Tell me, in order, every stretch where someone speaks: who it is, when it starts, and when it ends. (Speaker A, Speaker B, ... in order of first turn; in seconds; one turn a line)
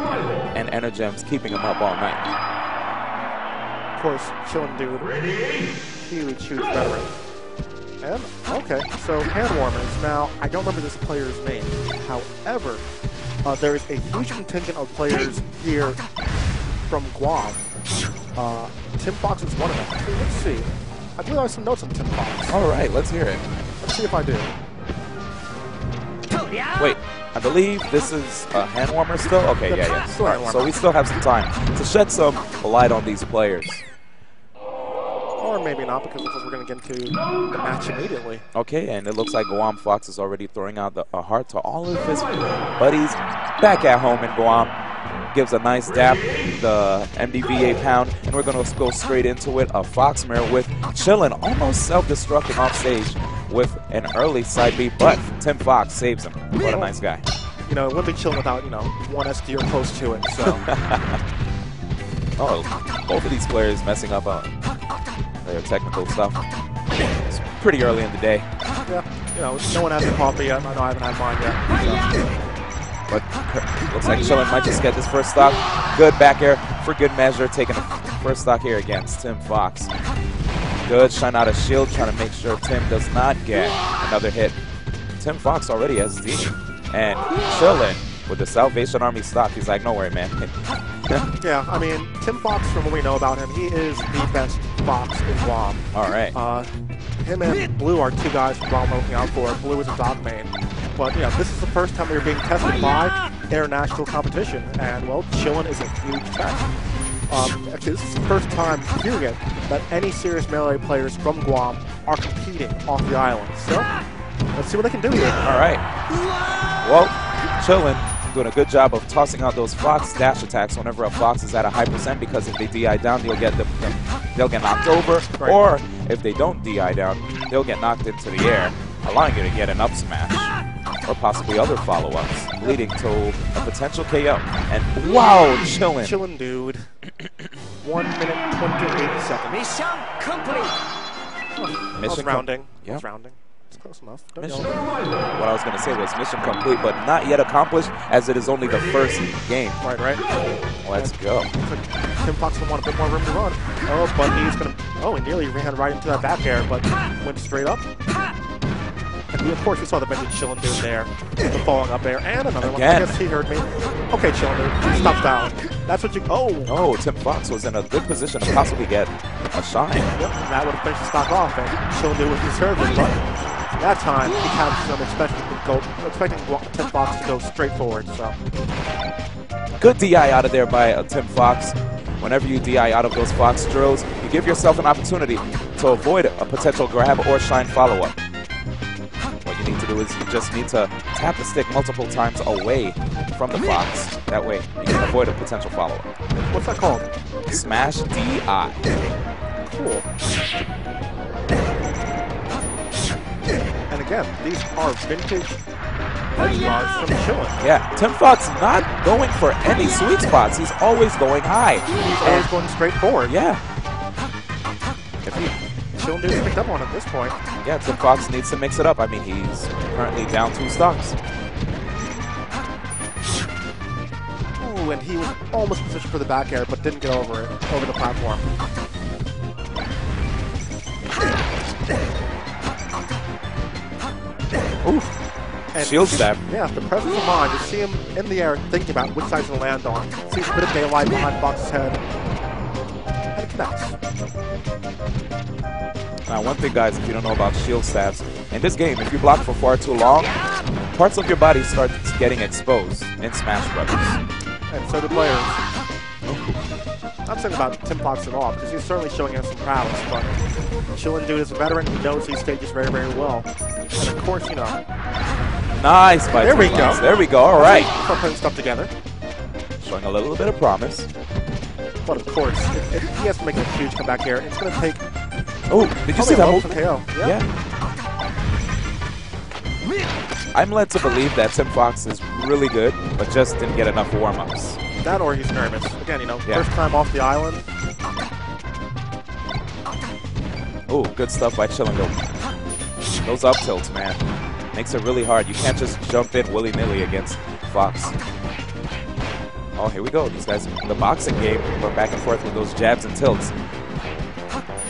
Speaker A: 0.5-2.3
Speaker B: 4.0-5.2
Speaker B: 6.0-7.1
Speaker B: 8.0-12.8
Speaker B: 13.4-16.0
Speaker B: 16.9-17.6
Speaker B: 18.4-22.6
Speaker A: 22.5-23.5
Speaker B: 23.8-24.5
Speaker A: 26.8-33.8
Speaker B: 29.7-30.8
Speaker B: 35.4-38.4
Speaker A: 38.5-44.7
Speaker A: 45.3-57.2
Speaker B: 57.7-60.7
Speaker A: 60.4-61.2
Speaker A: 62.4-64.6
Speaker A: 65.5-66.4
Speaker A: 67.3-68.5
Speaker B: 68.9-72.2
Speaker A: 73.1-79.9
Speaker A: 80.9-84.6
Speaker A: 85.2-90.5
Speaker B: 91.4-106.7
Speaker A: 95.9-96.3
Speaker B: 107.3-113.9
Speaker B: 114.5-115.4
Speaker A: 115.4-115.9
Speaker A: 116.8-130.5
Speaker B: 125.4-125.6
Speaker A: 131.1-136.2
Speaker B: 136.0-136.9
Speaker B: 137.8-140.1
Speaker B: 141.5-144.8
Speaker A: 142.0-143.0
Speaker A: 144.4-144.8
Speaker A: 145.3-149.8
Speaker B: 149.8-150.2
Speaker A: 150.8-151.5
Speaker B: 151.0-157.9
Speaker B: 159.3-166.7
Speaker A: 162.6-163.2
Speaker A: 166.7-170.2
Speaker B: 170.2-173.2
Speaker B: 173.8-178.4
Speaker A: 179.8-188.2
Speaker A: 189.4-196.1
Speaker B: 196.4-197.1
Speaker A: 197.5-198.9
Speaker B: 199.6-200.1
Speaker B: 203.9-205.6
Speaker B: 206.3-207.6
Speaker A: 207.6-212.5
Speaker B: 212.0-213.3
Speaker A: 213.2-213.6
Speaker A: 215.3-215.6
Speaker B: 215.3-217.4
Speaker A: 217.6-221.2
Speaker B: 224.6-228.4
Speaker A: 234.8-235.1
Speaker B: 235.7-242.0
Speaker A: 235.8-236.4
Speaker B: 243.3-244.0
Speaker A: 246.3-254.2
Speaker B: 254.7-255.6
Speaker A: 256.2-256.6
Speaker B: 257.2-260.4
Speaker B: 260.9-264.8
Speaker A: 265.7-267.9
Speaker B: 266.3-268.9
Speaker A: 269.8-271.1
Speaker B: 272.1-275.0
Speaker A: 275.7-277.5
Speaker B: 276.1-277.4
Speaker A: 280.5-284.8
Speaker B: 285.0-287.6
Speaker A: 290.9-292.2
Speaker A: 293.2-294.2
Speaker A: 294.7-298.1
Speaker A: 299.8-303.5